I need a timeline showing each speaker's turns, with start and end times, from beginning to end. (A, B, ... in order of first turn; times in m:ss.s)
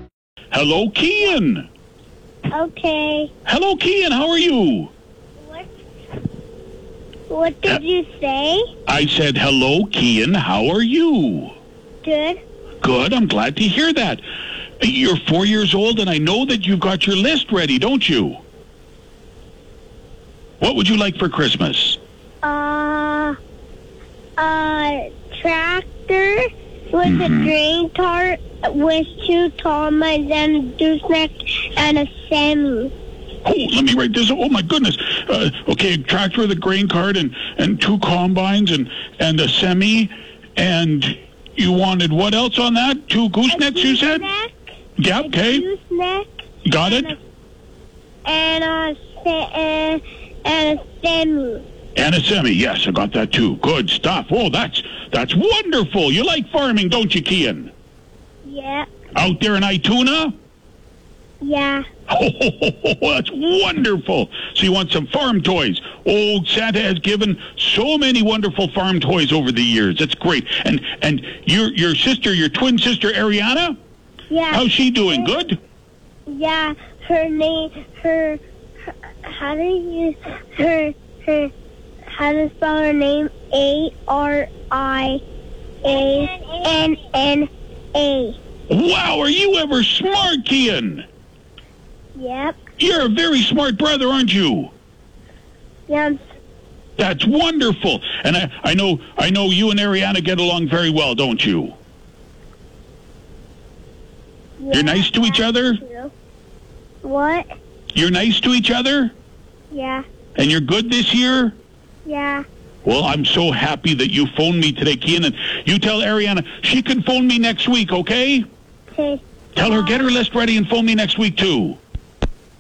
0:00.5-0:01.7 A
0:02.5-0:03.3 B
0:03.5-0:04.9 A
0:05.4-0:05.7 B
0:07.3-0:08.7 B
0:08.9-0:11.5 A
0:12.0-0:12.4 B
0:12.8-0:14.2 A
0:14.8-0:18.4 A
0:20.6-0:22.0 A
0:22.4-0:23.4 B
0:24.4-0:32.9 B
0:27.0-0:27.5 A
0:33.4-0:44.3 A
0:43.5-0:44.5 B
0:45.0-0:45.6 A
0:45.2-0:46.3 B
0:46.6-0:47.1 A
0:46.8-0:47.2 B
0:48.2-0:51.6 B
0:52.0-0:57.7 A
0:58.4-0:58.9 B
0:59.2-1:00.4 A
1:01.4-1:01.8 B
1:02.1-1:13.8 A
1:14.3-1:15.3 B
1:14.5-1:15.6 A
1:16.3-1:18.4 B
1:19.2-1:21.5 B
1:22.1-1:25.2 B
1:25.8-1:28.4 B
1:28.7-1:31.1 A
1:32.2-1:32.6 B
1:32.8-1:34.7 A
1:35.9-1:36.2 B
1:37.0-1:41.8 A
1:44.6-1:46.1 B
1:44.7-1:45.8 A
1:47.0-1:47.4 B
1:47.9-1:49.1 A
1:49.7-1:50.0 B
1:50.4-1:51.6 A
1:52.0-1:52.4 B
1:52.8-1:58.5 A
1:58.9-2:00.0 B
1:59.6-2:01.8 A